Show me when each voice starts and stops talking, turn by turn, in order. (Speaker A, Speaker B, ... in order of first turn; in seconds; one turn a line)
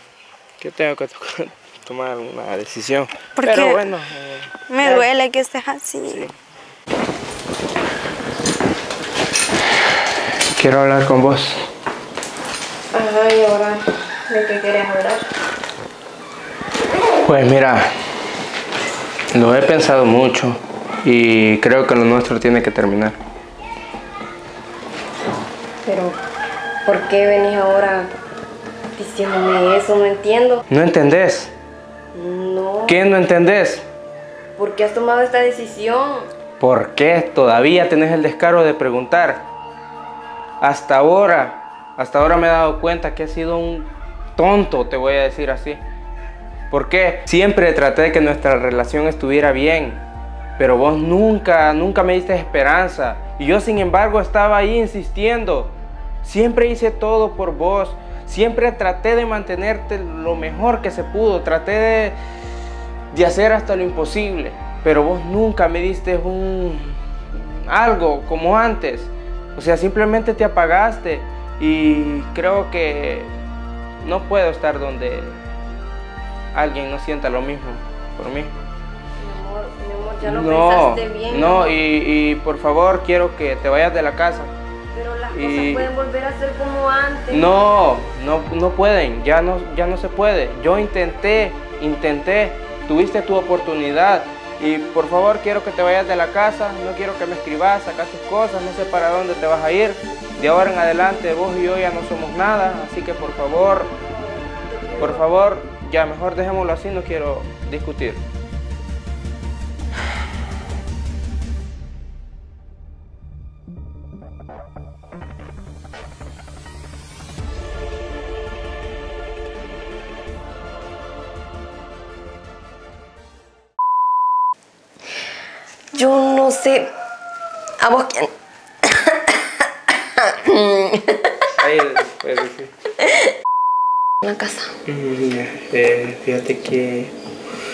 Speaker A: 0.6-5.1
Speaker B: 3.4-3.8
Speaker B: 4.7-6.3
Speaker A: 6.0-6.3
Speaker A: 10.6-11.7
Speaker C: 12.9-13.8
Speaker C: 14.3-15.2
Speaker A: 17.2-17.9
Speaker A: 19.3-23.2
Speaker C: 25.8-26.2
Speaker C: 26.9-28.1
Speaker C: 29.0-30.6
Speaker A: 30.7-31.5
Speaker C: 32.1-33.0
Speaker A: 32.9-33.8
Speaker C: 34.5-36.3
Speaker A: 36.6-39.4
Speaker A: 40.6-45.8
Speaker A: 46.7-50.0
Speaker A: 50.6-62.2
Speaker A: 63.1-73.3
Speaker A: 74.0-75.4
Speaker A: 76.5-78.5
Speaker C: 79.2-81.7
Speaker A: 80.2-84.5
Speaker C: 84.9-87.5
Speaker A: 85.3-85.9
Speaker A: 87.3-103.9
Speaker C: 104.2-105.3
Speaker A: 105.0-108.2
Speaker C: 125.9-126.9
Speaker C: 127.8-128.3
Speaker C: 128.8-129.4
Speaker C: 130.2-131.4
Speaker A: 131.6-132.7
Speaker C: 134.2-134.7
Speaker A: 134.8-137.1